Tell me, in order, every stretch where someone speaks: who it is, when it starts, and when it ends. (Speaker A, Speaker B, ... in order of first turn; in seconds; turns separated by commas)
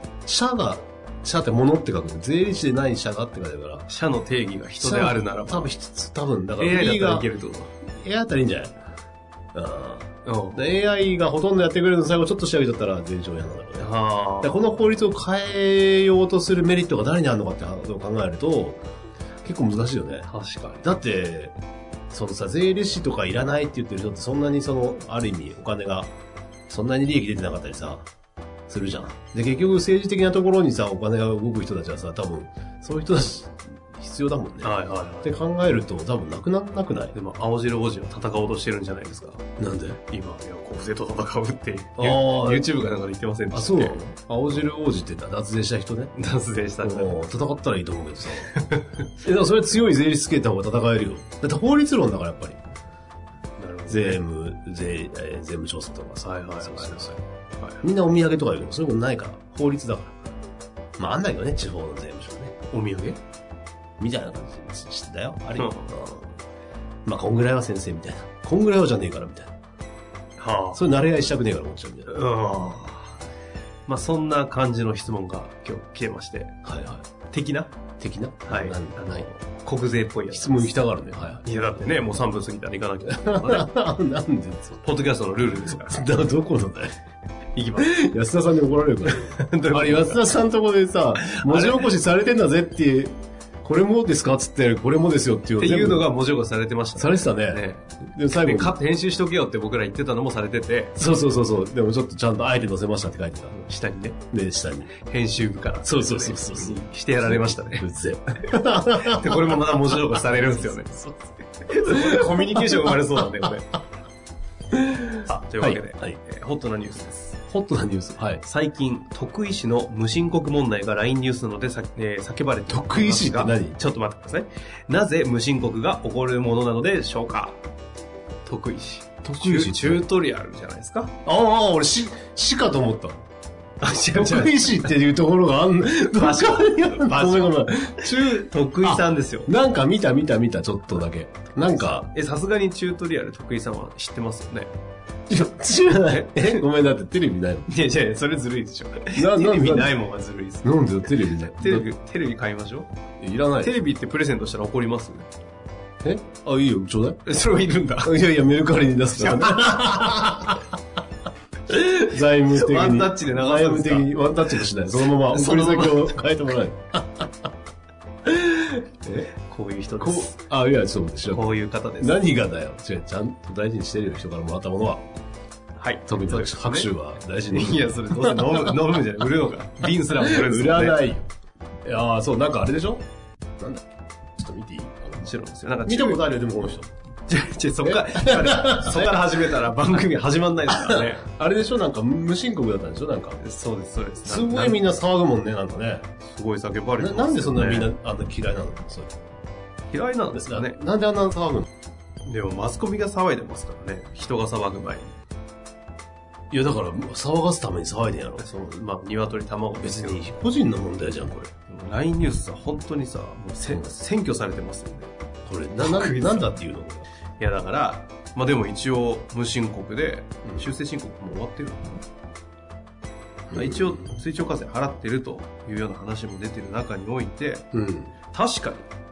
Speaker A: 0.2-3.9, Speaker B: 3.9-5.7, Speaker A: 4.8-7.3, Speaker B: 6.6-7.7, Speaker A: 7.9-8.8, Speaker A: 9.5-13.9, Speaker B: 10.2-10.7, Speaker B: 13.8-14.6, Speaker A: 14.4-18.8, Speaker A: 19.4-20.3, Speaker B: 20.3-20.9, Speaker A: 20.8-21.5, Speaker A: 22.1-26.1, Speaker A: 26.7-28.1, Speaker A: 28.7-37.1, Speaker B: 34.6-35.3, Speaker B: 37.1-39.4, Speaker A: 39.6-40.0, Speaker B: 40.1-44.0, Speaker A: 42.0-42.7, Speaker A: 43.5-46.1, Speaker B: 46.1-47.1, Speaker A: 46.8-48.5, Speaker B: 48.5-48.9, Speaker A: 49.2-52.6, Speaker B: 53.6-54.2, Speaker A: 53.9-57.2, Speaker B: 56.2-57.8, Speaker A: 57.8-60.1, Speaker A: 61.0-62.5, Speaker B: 62.7-63.2, Speaker A: 64.0-66.3, Speaker B: 65.6-65.9, Speaker A: 67.1-69.5, Speaker B: 70.4-70.8, Speaker A: 70.7-72.2, Speaker B: 72.1-73.2, Speaker B: 73.9-76.6, Speaker A: 76.6-77.0, Speaker B: 77.3-77.7, Speaker A: 78.0-79.3, Speaker B: 78.5-80.7, Speaker A: 80.3-81.5, Speaker B: 81.4-83.7, Speaker A: 83.1-84.8, Speaker B: 84.8-85.9, Speaker A: 85.7-86.9, Speaker B: 87.6-88.0, Speaker A: 87.8-96.1, Speaker B: 89.1-90.2, Speaker B: 91.2-91.9, Speaker B: 95.6-101.0, Speaker A: 97.0-98.8, Speaker A: 101.0-103.5, Speaker B: 103.5-104.2, Speaker A: 104.3-104.9, Speaker B: 105.0-107.9, Speaker A: 105.8-111.2, Speaker B: 108.5-111.0, Speaker B: 111.6-113.8, Speaker A: 111.9-112.3, Speaker A: 114.7-116.1, Speaker B: 115.2-117.4, Speaker A: 117.5-118.4, Speaker B: 118.3-127.6, Speaker A: 122.7-123.8, Speaker B: 128.4-131.1, Speaker A: 129.2-130.0, Speaker A: 131.2-133.2, Speaker B: 133.8-134.9, Speaker A: 134.1-142.1, Speaker B: 136.1-139.5, Speaker B: 141.6-144.7, Speaker A: 145.3-147.7, Speaker B: 146.1-146.6, Speaker B: 147.7-150.7, Speaker A: 149.1-150.0, Speaker A: 150.6-151.9, Speaker B: 151.4-152.9, Speaker A: 153.2-153.8, Speaker B: 153.6-155.3, Speaker A: 156.0-157.2, Speaker B: 157.2-158.2, Speaker A: 158.0-160.7, Speaker B: 159.1-160.4, Speaker A: 161.7-167.3, Speaker B: 161.7-164.1, Speaker B: 164.6-166.2, Speaker A: 168.2-169.1, Speaker B: 169.1-170.3, Speaker A: 170.0-175.0, Speaker B: 171.3-172.2, Speaker B: 175.8-176.9, Speaker A: 176.1-178.7, Speaker B: 177.5-181.0, Speaker A: 180.1-181.2, Speaker A: 181.8-183.1, Speaker A: 183.6-183.8, Speaker A: 184.4-185.3, Speaker B: 185.2-186.2, Speaker A: 185.9-186.9, Speaker B: 187.3-191.2, Speaker A: 187.8-189.2, Speaker A: 190.7-193.4, Speaker B: 193.4-194.8, Speaker A: 194.2-196.1, Speaker B: 196.2-197.9, Speaker A: 197.0-199.1, Speaker B: 199.9-200.8, Speaker A: 200.3-201.7, Speaker B: 202.2-205.1, Speaker A: 206.5-208.7, Speaker B: 208.4-210.3, Speaker A: 209.8-211.5, Speaker B: 211.6-215.1, Speaker A: 215.4-217.1, Speaker B: 215.8-216.6, Speaker B: 217.4-222.0, Speaker A: 223.5-224.1, Speaker B: 223.5-227.7, Speaker A: 227.7-228.1, Speaker B: 228.3-228.9